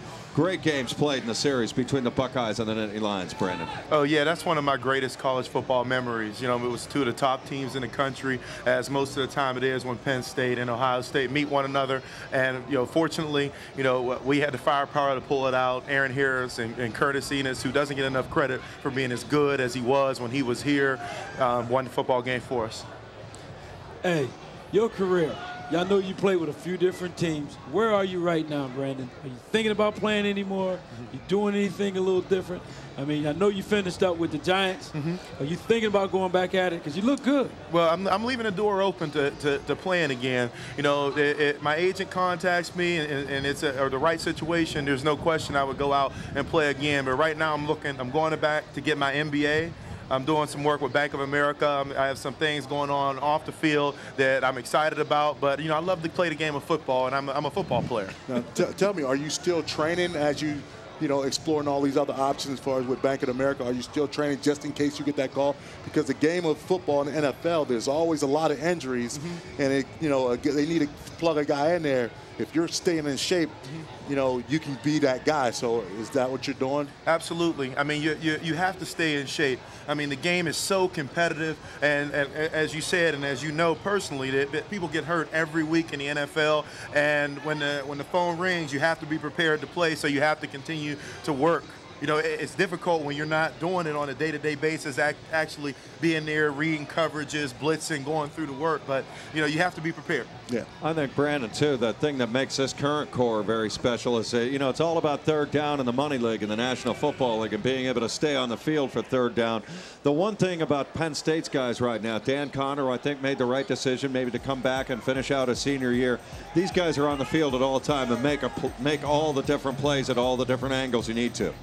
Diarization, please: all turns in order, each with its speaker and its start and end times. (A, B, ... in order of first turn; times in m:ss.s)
0:00.3-0:03.7 A
0:03.9-0:22.9 B
0:24.0-0:37.5 C
0:34.9-0:35.2 B
0:37.7-0:58.2 B
0:58.3-1:16.9 D
1:09.1-1:09.4 B
1:17.0-1:40.3 B
1:40.8-2:01.5 A